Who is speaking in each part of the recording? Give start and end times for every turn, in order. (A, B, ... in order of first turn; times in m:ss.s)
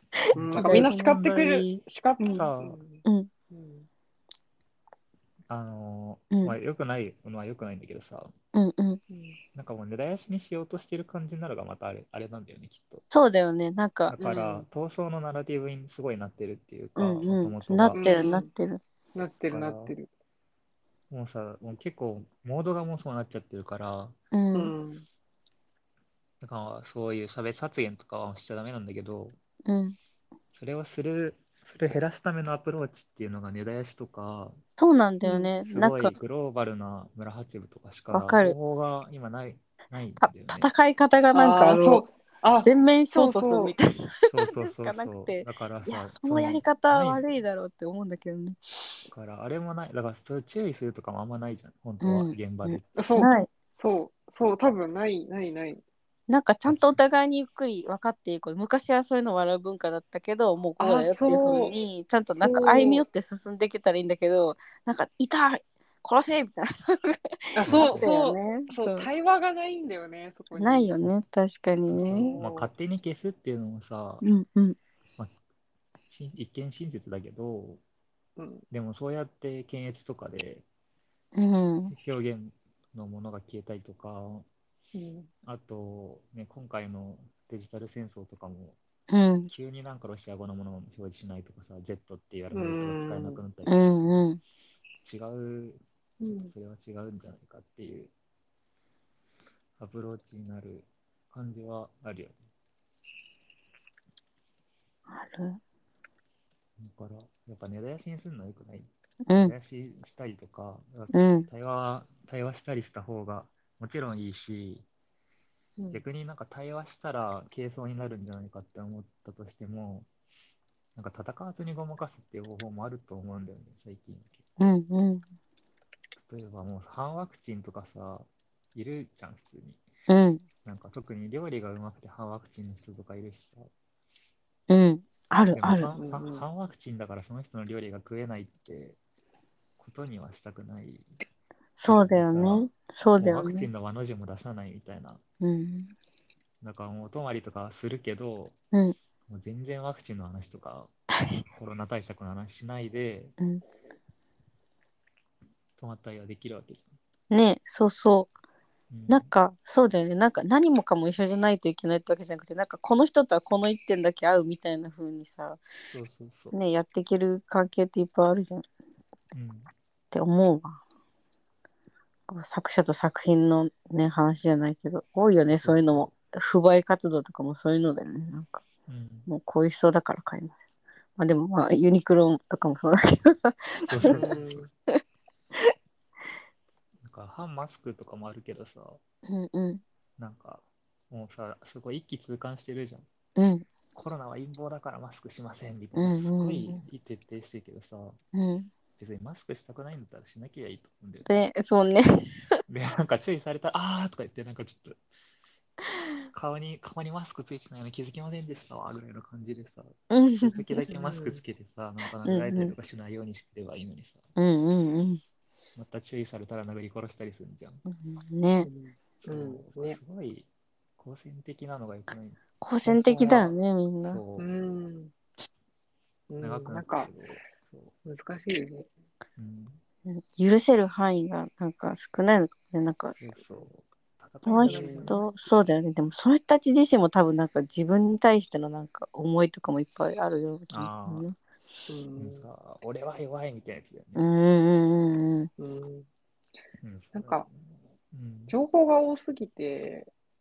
0:00.3-0:02.8 A
0:00.3-0:03.9 B
0:00.6-0:00.9 C
0:02.2-0:02.5 C
0:03.0-0:03.3 C
0:05.5-0:08.3 A
0:06.3-0:06.6 C
0:08.5-0:09.0 C
0:09.1-0:09.4 B
0:09.5-0:13.0 A
0:13.1-0:14.4 C
0:14.1-0:18.0 A
0:14.2-0:14.6 B
0:17.0-0:18.8 C
0:17.9-0:18.5 B
0:19.1-0:20.1 B
0:19.5-0:19.9 A
0:21.1-0:24.2 A
0:24.3-0:24.7 C
0:24.5-0:25.0 B
0:26.4-0:29.4 A
0:29.6-0:30.0 C
0:30.5-0:34.6 A
0:34.8-0:36.1 C
0:35.2-0:35.5 B
0:35.7-0:40.7 A
0:38.1-0:38.6 C
0:40.2-0:42.0 C
0:41.3-0:43.7 B
0:42.6-0:48.6 C
0:44.3-0:47.2 A
0:49.1-0:52.9 A
0:52.0-0:53.5 C
0:53.0-0:55.8 B
0:56.3-1:09.1 C
0:56.6-0:57.0 A
1:00.8-1:01.7 B
1:02.4-1:03.0 B
1:07.5-1:10.9 B
1:07.6-1:08.1 A
1:10.6-1:12.3 C
1:11.9-1:14.2 A
1:12.1-1:12.7 B
1:14.2-1:14.8 C
1:16.1-1:17.8 A
1:18.4-1:18.6 B
1:18.7-1:20.6 A
1:21.3-1:21.9 C
1:21.9-1:24.4 A
1:24.9-1:25.3 B
1:25.4-1:28.8 A
1:29.1-1:29.5 C
1:29.5-1:33.7 A
1:32.5-1:33.4 B
1:33.6-1:34.4 C
1:35.0-1:38.1 A
1:36.2-1:36.5 B
1:39.8-1:42.4 A
1:45.1-1:45.6 C
1:46.8-1:54.8 A
1:49.2-1:49.5 C
1:51.1-1:51.5 C
1:55.8-1:56.0 B
1:55.9-2:00.1 A
2:00.9-2:04.4 A
2:04.6-2:05.2 C
2:06.2-2:09.8 A
2:10.1-2:10.4 C
2:10.6-2:13.7 A
2:14.7-2:15.9 C
2:15.5-2:19.0 A
2:16.0-2:16.4 B
2:19.8-2:21.1 A
2:21.8-2:23.7 C
2:21.9-2:22.6 A
2:23.2-2:25.2 A
2:25.4-2:25.9 C
2:26.6-2:28.5 A
2:29.3-2:30.9 A
2:31.5-2:33.3 A
2:35.8-2:36.9 A
2:37.3-2:38.3 C
2:38.9-2:39.3 A
2:39.1-2:45.6 C
2:45.9-2:46.6 A
2:46.5-2:48.6 C
2:49.3-2:49.7 A
2:50.1-2:50.8 C
2:52.3-2:58.6 C
2:55.5-2:56.1 A
2:58.9-2:59.3 A
2:59.3-3:00.6 C
3:01.2-3:04.2 C
3:03.9-3:04.7 A
3:04.1-3:04.7 B
3:07.0-3:09.0 A
3:09.3-3:09.8 C
3:10.2-3:13.0 A
3:13.4-3:13.7 C
3:13.9-3:18.2 A
3:15.9-3:16.8 C
3:18.3-3:18.7 C
3:19.0-3:21.3 A
3:21.2-3:22.6 C
3:22.7-3:25.0 A
3:26.3-3:34.2 A
3:30.1-3:30.9 C
3:30.9-3:31.4 B
3:32.2-3:32.7 C
3:34.4-3:35.2 C
3:35.8-3:37.8 A
3:37.8-3:38.7 C
3:38.6-3:40.0 B
3:39.2-3:40.5 A
3:41.0-3:43.5 A
3:42.6-3:44.2 C
3:44.1-3:44.4 A
3:44.4-3:45.1 B
3:46.3-3:47.1 B
3:46.4-3:47.9 A
3:48.0-3:48.9 B
3:49.4-3:49.8 A
3:50.1-3:53.2 C
3:53.2-3:55.2 A
3:54.4-4:01.4 C
3:54.6-3:55.2 B
4:00.7-4:01.2 A
4:01.9-4:02.4 B
4:02.2-4:04.3 A
4:04.1-4:05.5 C
4:05.6-4:06.1 B
4:06.8-4:08.6 A
4:07.1-4:07.5 B
4:08.5-4:10.1 B